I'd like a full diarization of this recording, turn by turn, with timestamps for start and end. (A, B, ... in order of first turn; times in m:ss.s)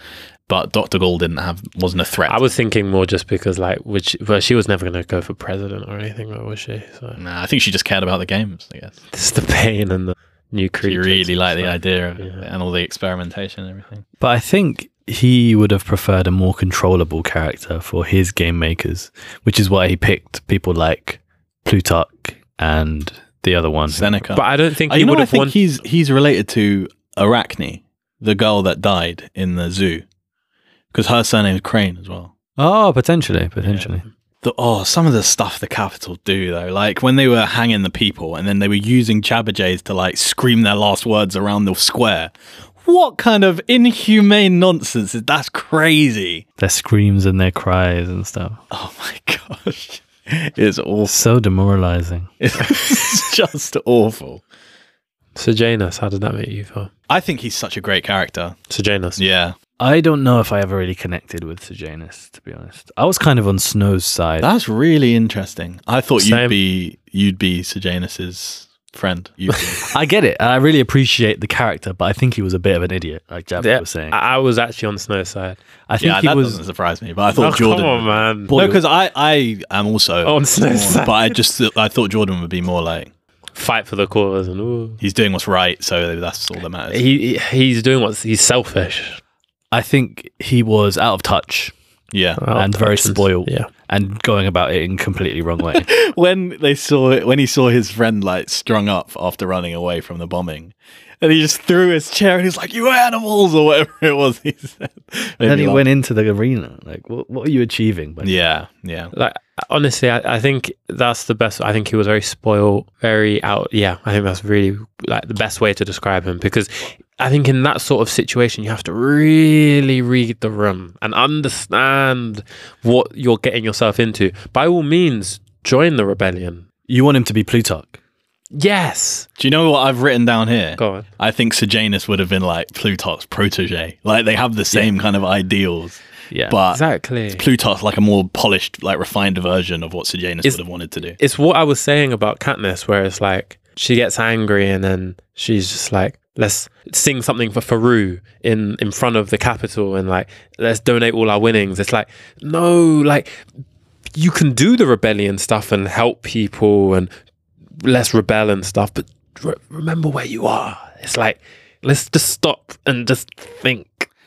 0:00.5-0:02.5 A
0:02.3-0:07.2 B
0:07.2-0:08.9 A
0:09.1-0:12.5 B
0:10.8-0:14.0 A
0:14.2-0:24.2 C
0:23.9-0:30.0 A
0:24.3-0:25.6 B
0:30.9-0:32.3 A
0:32.6-0:34.0 C
0:34.4-0:42.3 A
0:42.8-0:46.4 A
0:46.6-0:48.6 C
0:48.7-0:51.2 A
0:51.1-0:52.3 C
0:52.4-0:54.4 A
0:55.4-0:56.9 B
0:57.1-0:58.6 A
0:58.7-0:59.2 B
0:59.2-0:59.6 A
0:59.8-1:04.5 C
1:04.4-1:09.9 A
1:06.2-1:06.6 B
1:09.9-1:14.2 C
1:13.6-1:15.6 B
1:15.9-1:16.6 C
1:16.0-1:23.1 A
1:17.4-1:18.6 B
1:18.5-1:18.8 C
1:20.2-1:21.4 B
1:23.6-1:25.0 B
1:25.0-1:27.1 A
1:26.9-1:29.2 B
1:29.7-1:31.7 C
1:32.1-1:32.4 A
1:32.4-1:33.7 B
1:32.5-1:35.9 C
1:35.8-1:45.8 A
1:45.4-1:48.3 C
1:48.2-1:49.1 A
1:49.1-2:06.6 B
2:06.9-2:08.0 C
2:08.5-2:09.3 B
2:09.4-2:16.8 A
2:10.8-2:11.1 B
2:16.3-2:16.6 C
2:16.7-2:17.4 B
2:17.3-2:21.2 A
2:21.2-2:33.4 B
2:34.2-2:37.1 B
2:37.8-2:44.1 B